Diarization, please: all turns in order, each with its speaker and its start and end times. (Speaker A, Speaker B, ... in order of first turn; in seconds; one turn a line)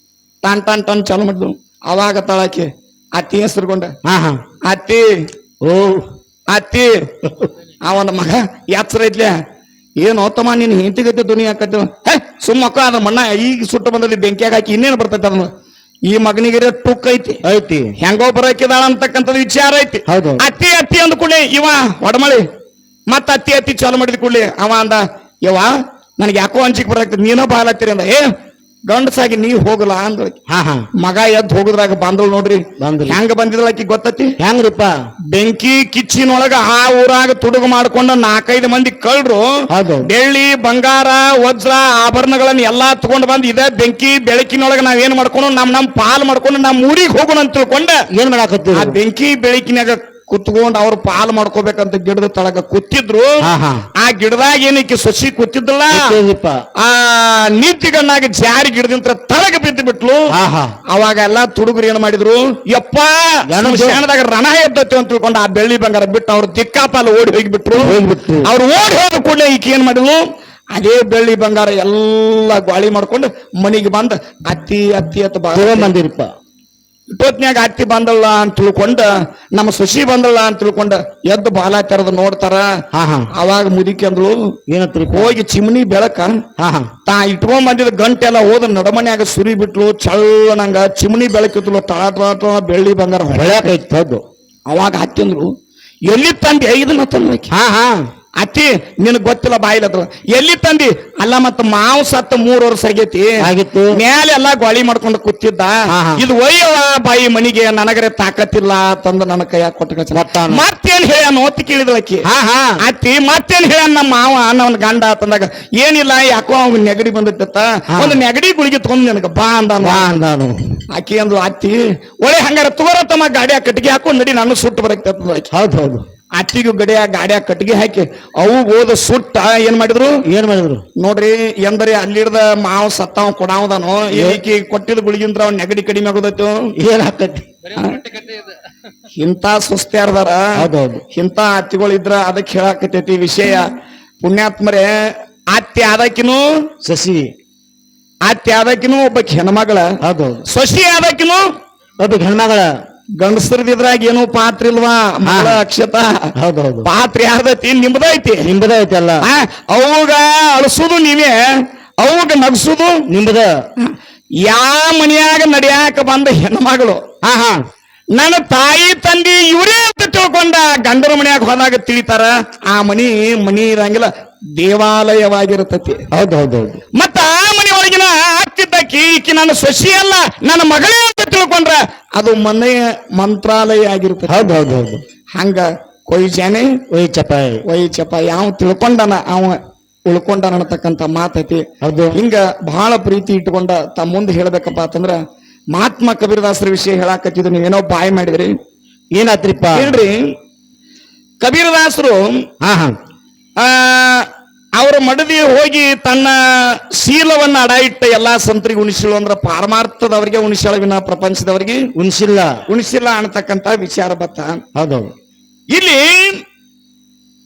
Speaker A: 0.4-3.9
Speaker B: 4.0-4.4
Speaker A: 4.7-5.0
Speaker B: 5.6-6.1
Speaker A: 6.5-6.9
Speaker A: 7.8-9.3
Speaker A: 10.0-15.5
Speaker A: 16.1-17.4
Speaker B: 17.5-17.9
Speaker A: 18.0-22.4
Speaker B: 20.1-20.4
Speaker A: 23.1-28.2
Speaker A: 28.9-30.4
Speaker B: 30.5-30.9
Speaker A: 31.0-34.3
Speaker B: 32.8-33.2
Speaker B: 34.4-34.9
Speaker A: 35.3-39.5
Speaker B: 39.7-40.1
Speaker A: 40.0-48.0
Speaker B: 48.1-49.0
Speaker A: 48.7-53.4
Speaker B: 53.4-53.9
Speaker A: 54.0-56.1
Speaker B: 55.9-56.6
Speaker A: 56.8-60.3
Speaker B: 60.3-60.7
Speaker A: 60.9-70.2
Speaker B: 63.5-64.0
Speaker B: 67.8-68.5
Speaker A: 70.8-75.9
Speaker B: 75.5-76.3
Speaker A: 77.1-82.7
Speaker B: 82.9-83.3
Speaker A: 83.4-84.4
Speaker B: 84.7-85.4
Speaker A: 85.1-86.4
Speaker B: 86.6-86.9
Speaker A: 87.1-93.7
Speaker B: 93.3-94.2
Speaker A: 94.7-95.5
Speaker A: 96.1-97.5
Speaker B: 97.5-98.0
Speaker A: 98.4-103.3
Speaker B: 103.4-104.0
Speaker A: 104.0-112.2
Speaker B: 105.9-106.2
Speaker B: 110.1-110.6
Speaker B: 112.3-112.7
Speaker A: 112.8-120.1
Speaker B: 117.9-118.2
Speaker B: 119.8-120.6
Speaker A: 120.9-125.5
Speaker B: 125.5-126.0
Speaker A: 126.4-130.1
Speaker B: 130.3-130.8
Speaker A: 131.0-136.6
Speaker B: 134.1-134.4
Speaker B: 136.8-137.5
Speaker A: 137.8-138.1
Speaker A: 139.2-140.4
Speaker B: 140.6-141.0
Speaker A: 141.1-144.9
Speaker A: 145.5-146.4
Speaker B: 146.8-147.3
Speaker A: 148.3-149.9
Speaker B: 150.0-150.4
Speaker A: 150.5-151.4
Speaker B: 152.0-152.7
Speaker A: 153.2-156.3
Speaker B: 155.3-155.6
Speaker B: 156.4-156.9
Speaker A: 156.8-158.4
Speaker B: 158.4-159.2
Speaker A: 159.2-161.4
Speaker A: 162.0-163.0
Speaker B: 163.1-163.5
Speaker A: 164.4-167.0
Speaker B: 167.2-167.6
Speaker A: 168.2-176.0
Speaker B: 176.1-176.8
Speaker A: 177.0-184.6
Speaker B: 184.3-185.0
Speaker A: 185.4-186.7
Speaker B: 186.9-187.6
Speaker A: 187.7-191.6
Speaker B: 191.8-192.2
Speaker A: 192.2-195.2
Speaker A: 195.8-198.5
Speaker B: 199.2-200.0
Speaker A: 199.8-200.2
Speaker A: 201.4-202.4
Speaker B: 202.6-202.9
Speaker A: 203.6-204.3
Speaker A: 204.8-206.4
Speaker A: 207.0-211.9
Speaker B: 212.0-212.6
Speaker A: 212.7-214.6
Speaker B: 214.8-215.1
Speaker A: 215.7-216.4